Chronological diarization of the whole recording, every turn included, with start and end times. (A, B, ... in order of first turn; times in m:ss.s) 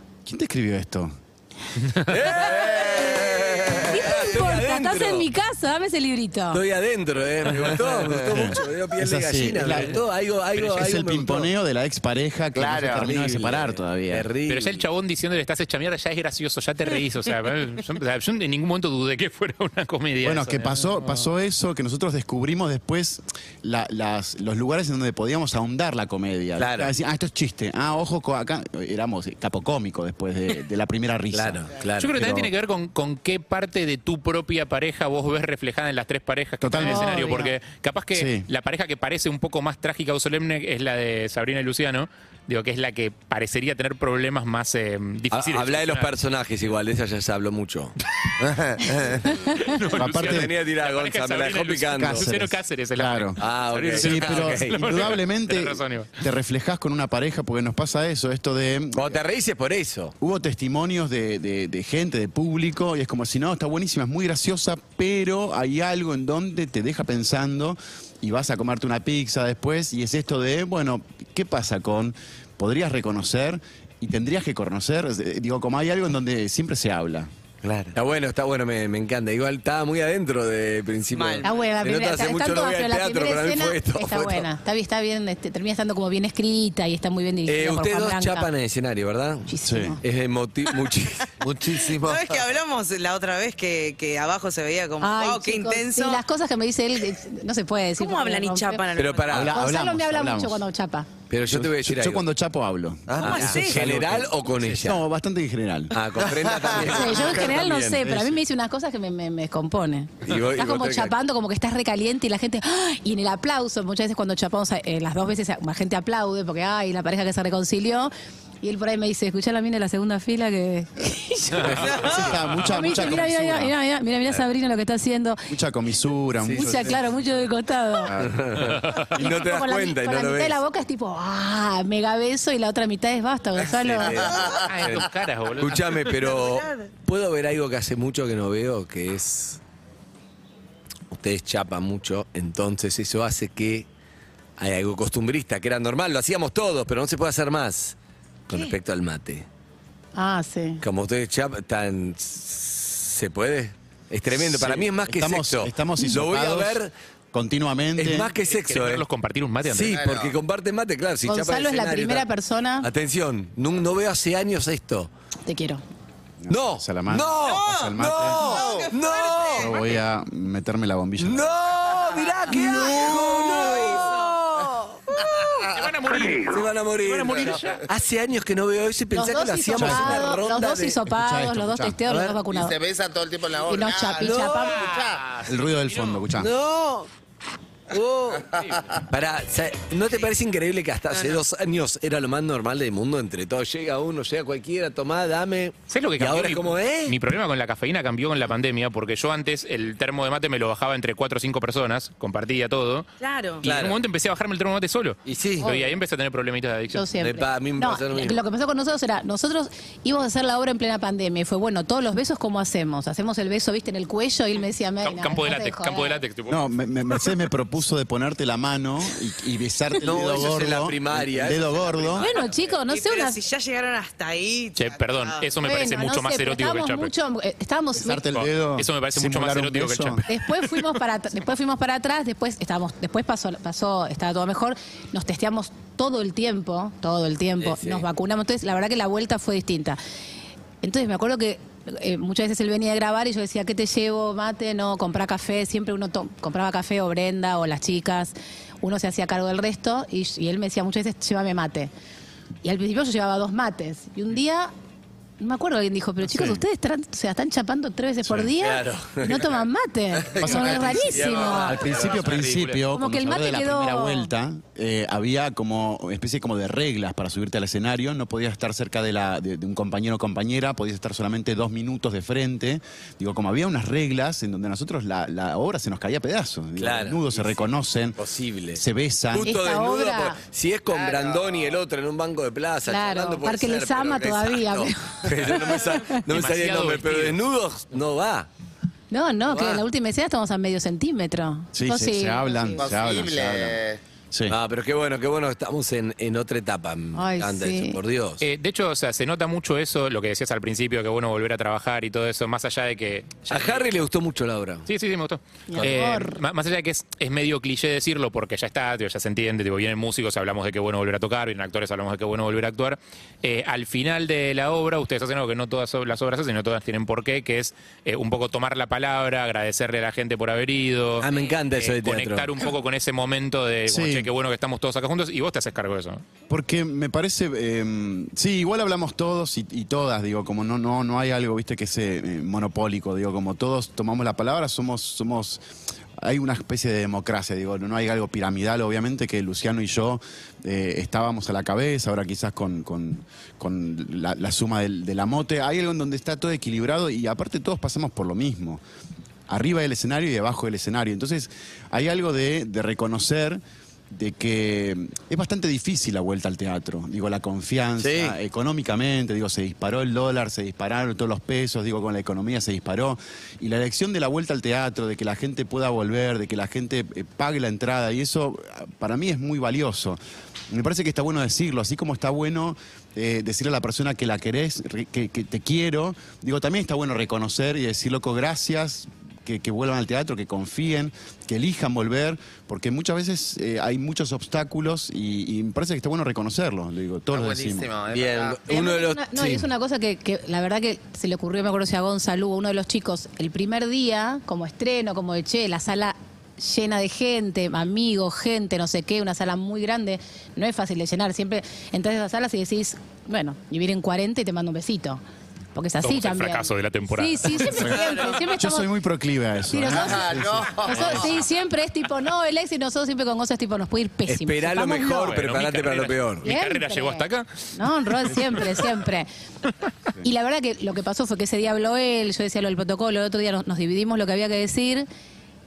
0:00.3-0:01.2 A
0:02.1-0:05.3 B
0:02.5-0:03.7 C
0:03.7-0:06.6 D
0:06.5-0:11.5 B
0:08.3-0:10.0 A
0:10.6-0:14.3 A
0:12.6-0:13.0 C
0:13.0-0:14.9 B
0:14.5-0:21.2 E
0:20.2-0:32.5 A
0:26.6-0:26.9 B
0:31.3-0:32.2 B
0:32.0-0:46.1 E
0:36.6-0:37.6 A
0:36.8-0:37.4 D
0:38.1-0:38.5 A
0:45.3-0:48.0 B
0:48.4-0:49.2 C
0:48.8-0:49.3 B
0:49.6-0:56.1 E
0:49.9-0:52.3 B
0:49.9-0:50.5 A
0:52.0-0:59.2 A
0:53.4-0:55.2 B
0:59.0-1:00.1 B
1:00.2-1:17.3 A
1:17.6-1:17.9 C
1:17.9-1:24.5 B
1:21.1-1:21.6 F
1:21.4-1:28.5 D
1:27.5-1:29.5 B
1:29.5-1:30.0 D
1:29.6-1:30.0 A
1:30.0-1:31.3 B
1:31.4-1:32.5 C
1:31.7-1:36.2 F
1:35.0-1:38.9 D
1:38.0-1:39.5 F
1:39.0-1:39.6 B
1:39.3-1:40.6 A
1:39.5-1:41.1 D
1:41.3-1:42.2 B
1:41.5-1:46.0 A
1:43.1-1:43.5 C
1:43.2-1:45.0 B
1:43.2-1:43.8 F
1:45.9-1:48.1 B
1:46.3-1:46.8 C
1:46.8-2:01.9 D
1:48.0-1:48.4 A
1:50.2-1:51.2 B
2:01.6-2:02.4 B
2:01.9-2:02.2 F
2:01.9-2:03.7 A
2:02.6-2:05.4 D
2:05.5-2:07.0 A
2:06.4-2:07.0 B
2:06.5-2:08.1 D
2:08.0-2:08.8 A
2:08.1-2:10.6 B
2:08.7-2:09.1 E
2:09.1-2:14.3 D
2:13.7-2:19.6 B
2:14.3-2:14.7 C
2:14.7-2:15.9 E
2:16.2-2:16.6 F
2:21.1-2:23.9 B
2:24.6-2:28.0 B
2:28.5-2:29.5 B
2:30.2-2:30.8 D
2:30.8-2:36.9 B
2:34.4-2:36.8 A
2:37.3-2:38.3 A
2:38.0-2:39.1 B
2:38.5-2:40.0 E
2:39.6-2:42.3 B
2:39.9-2:40.4 C
2:41.3-2:42.9 D
2:42.8-2:45.1 B
2:45.5-2:45.8 D
2:46.4-2:48.4 A
2:46.5-2:49.9 B
2:47.4-2:49.8 F
2:48.4-2:48.9 C
2:49.5-2:51.5 A
2:51.2-2:54.2 B
2:52.5-2:54.8 F
2:55.2-2:55.9 C
2:55.7-2:57.8 E
2:56.1-3:01.0 B
2:59.1-3:02.7 D
2:59.8-3:00.4 A
3:01.1-3:02.0 A
3:02.1-3:02.4 B
3:02.5-3:05.2 C
3:03.7-3:04.9 D
3:04.2-3:04.8 B
3:04.9-3:06.2 E
3:05.4-3:06.5 A
3:06.3-3:07.1 B
3:07.9-3:17.2 B
3:08.5-3:09.0 C
3:11.1-3:11.4 F
3:15.9-3:23.1 E
3:23.2-3:23.6 F
3:23.6-3:27.1 E
3:23.6-3:24.0 B
3:25.3-3:25.8 B
3:26.9-3:36.2 D
3:27.2-3:28.4 B
3:35.0-3:36.6 E
3:36.5-3:42.2 A
3:40.0-3:42.6 B
3:42.2-3:43.4 D
3:42.8-3:45.6 F
3:44.8-3:47.1 E
3:45.6-3:48.2 D
3:48.0-3:50.2 A
3:48.3-3:50.3 E
3:50.3-4:00.0 D
3:57.6-3:58.0 B
4:00.8-4:11.9 D
4:12.6-4:14.7 D
4:15.4-4:21.8 D
4:18.4-4:19.5 B
4:20.3-4:21.4 C
4:20.4-4:20.8 A
4:20.5-4:22.7 B
4:21.6-4:38.2 A
4:21.7-4:22.8 E
4:22.9-4:24.3 D
4:36.8-4:48.5 B
4:38.7-4:39.5 A
4:39.4-4:40.4 D
4:40.9-4:41.8 C
4:42.9-4:46.2 D
4:46.1-4:47.4 E
4:49.1-4:52.8 D
4:49.5-4:49.8 B
4:51.7-4:53.8 A
4:52.8-4:54.0 C
4:54.5-4:58.4 B
4:57.1-4:58.0 D
4:58.4-5:03.9 E
5:03.5-5:04.9 B
5:04.9-5:26.2 E
5:05.7-5:06.4 D
5:05.8-5:06.0 B
5:21.2-5:22.7 B
5:23.9-5:24.3 A
5:26.5-5:35.6 A
5:36.2-5:48.8 A
5:49.5-6:10.2 A
5:58.0-5:58.4 B
6:10.7-6:27.9 A
6:27.3-6:28.6 C
6:28.1-6:29.7 B
6:28.7-6:45.2 D
6:45.8-6:48.9 D
6:46.0-6:48.1 E
6:47.8-6:48.4 F
6:48.6-6:51.1 A
6:49.7-6:50.3 D
6:49.9-6:51.3 C
6:50.8-6:55.4 D
6:54.3-6:56.5 B
6:55.2-6:57.5 E
6:56.4-6:59.3 D
6:58.3-6:58.9 E
7:00.2-7:05.1 D